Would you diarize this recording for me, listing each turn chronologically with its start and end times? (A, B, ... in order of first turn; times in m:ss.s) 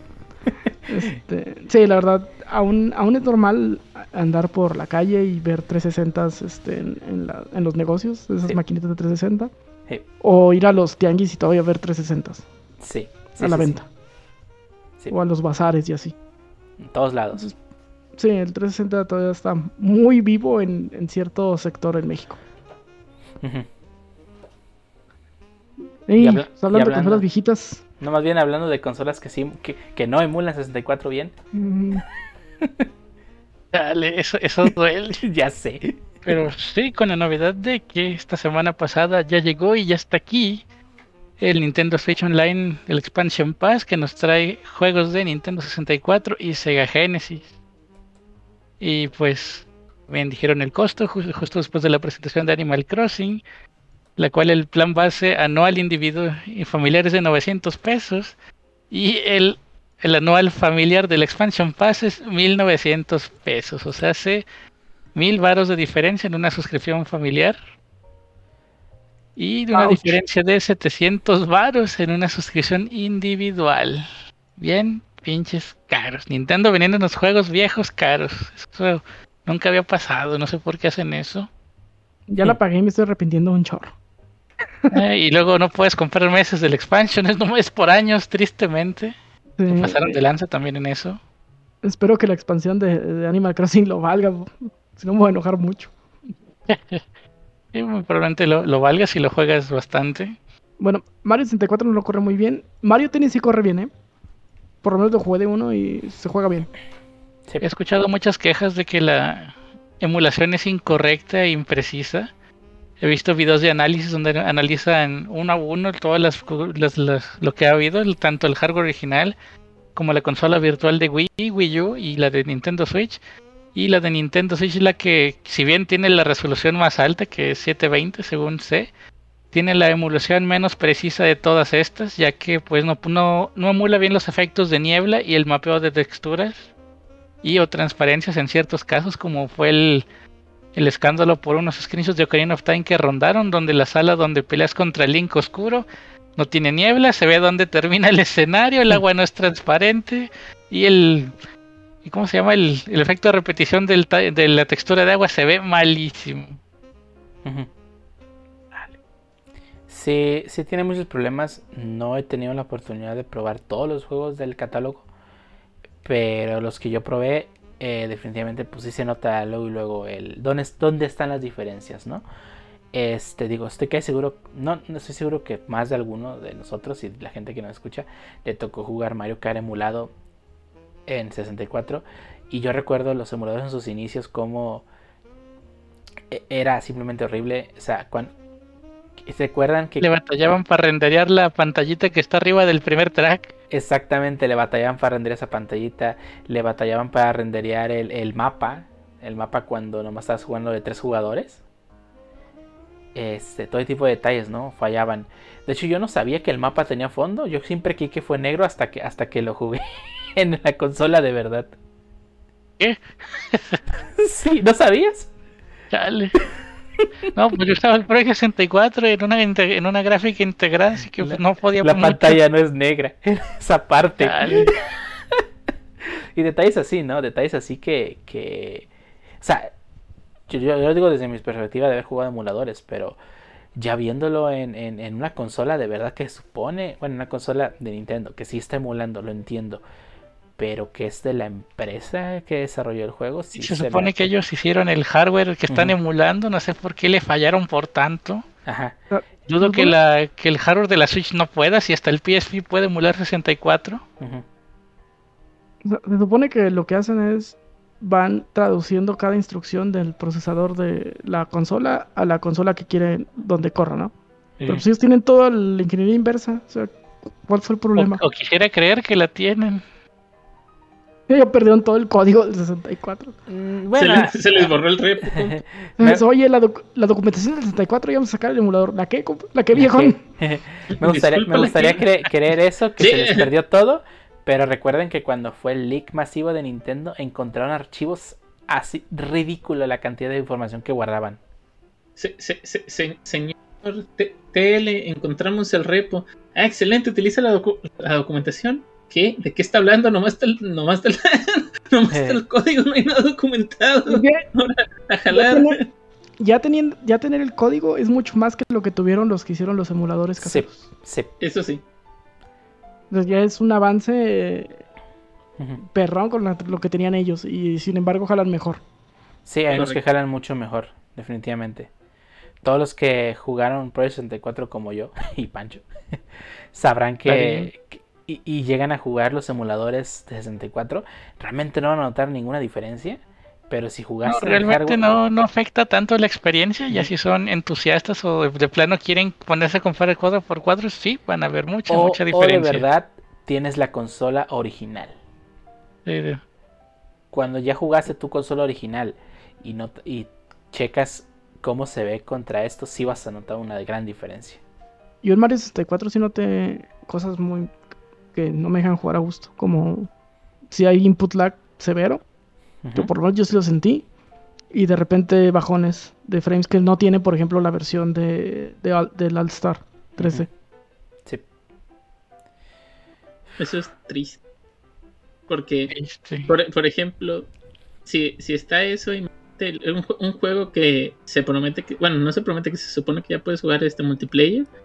0:00.9-0:09.5 A
0:10.2-0:12.4 A
0:12.8-0:13.8 B
0:13.4-0:13.8 A
0:15.1-0:16.1 A
0:16.8-0:17.4 B
0:18.2-0:22.4 A
0:23.4-0:23.7 B
0:26.1-0:27.8 A
0:26.2-0:27.2 B
0:28.0-0:31.3 B
0:31.5-0:32.0 A
0:32.6-0:32.9 B
0:33.7-0:35.2 C
0:34.6-0:35.9 B
0:36.2-0:40.6 C
0:41.4-0:47.5 C
0:48.8-0:53.4 C
0:54.2-0:58.3 C
0:58.9-1:04.4 C
1:05.1-1:07.6 C
1:09.4-1:21.5 C
1:09.7-1:10.2 A
1:22.3-1:23.9 A
1:24.9-1:29.1 C
1:29.6-1:30.2 A
1:29.7-1:31.2 C
1:31.8-1:35.9 A
1:36.6-1:37.0 C
1:37.7-1:40.4 C
1:40.8-1:43.9 A
1:44.8-1:46.7 A
1:47.6-1:52.3 C
1:53.0-1:59.3 C
1:59.9-2:03.2 C
2:03.7-2:08.9 C
2:09.5-2:16.7 C
2:17.4-2:20.0 C
2:20.7-2:25.8 C
2:26.4-2:31.3 C
2:32.0-2:36.6 C
2:39.9-2:45.0 B
2:46.0-2:52.2 B
2:52.9-3:00.1 B
3:01.1-3:04.9 B
3:06.3-3:08.3 B
3:09.2-3:10.1 B
3:10.0-3:13.5 C
3:13.7-3:21.6 B
3:23.1-3:29.8 B
3:30.3-3:31.7 B
3:32.8-3:33.8 C
3:34.2-3:35.3 B
3:35.9-3:36.4 C
3:37.3-3:42.4 C
3:41.2-3:45.4 B
3:44.2-3:44.8 C
3:46.3-3:48.9 B
3:49.4-3:49.7 B
3:50.5-3:53.2 B
3:53.8-3:59.8 B
4:00.6-4:04.3 B
4:03.5-4:08.4 C
4:05.7-4:05.9 B
4:08.6-4:09.0 B
4:09.1-4:09.9 A
4:09.5-4:14.0 C
4:15.8-4:24.1 A
4:24.6-4:28.2 A
4:28.0-4:29.8 C
4:31.3-4:33.3 A
4:33.5-4:34.7 B
4:33.9-4:35.6 D
4:35.2-4:36.2 B
4:36.0-4:40.2 A
4:39.7-4:51.4 B
4:40.9-4:42.0 D
4:43.0-4:43.5 D
4:52.2-5:05.9 D
5:02.1-5:02.4 B
5:04.1-5:04.4 A
5:05.3-5:05.8 A
5:06.4-5:10.8 A
5:10.4-5:11.3 B
5:11.4-5:11.8 D
5:13.1-5:14.8 A
5:15.8-5:18.8 A
5:19.4-5:21.9 B
5:19.7-5:20.0 D
5:22.6-5:25.8 B
5:26.7-5:35.1 B
5:27.2-5:27.7 C
5:34.2-5:42.8 C
5:41.9-5:45.1 B
5:46.0-5:46.4 C
5:47.3-5:54.6 B
5:55.2-5:57.7 A
5:58.3-6:00.1 A
6:00.7-6:02.2 A
6:02.8-6:03.1 B
6:02.9-6:04.0 A
6:04.7-6:10.5 A
6:10.2-6:10.5 B
6:13.6-6:14.4 D
6:15.5-6:15.9 D
6:15.9-6:16.5 C
6:16.4-6:17.5 D
6:18.0-6:24.7 D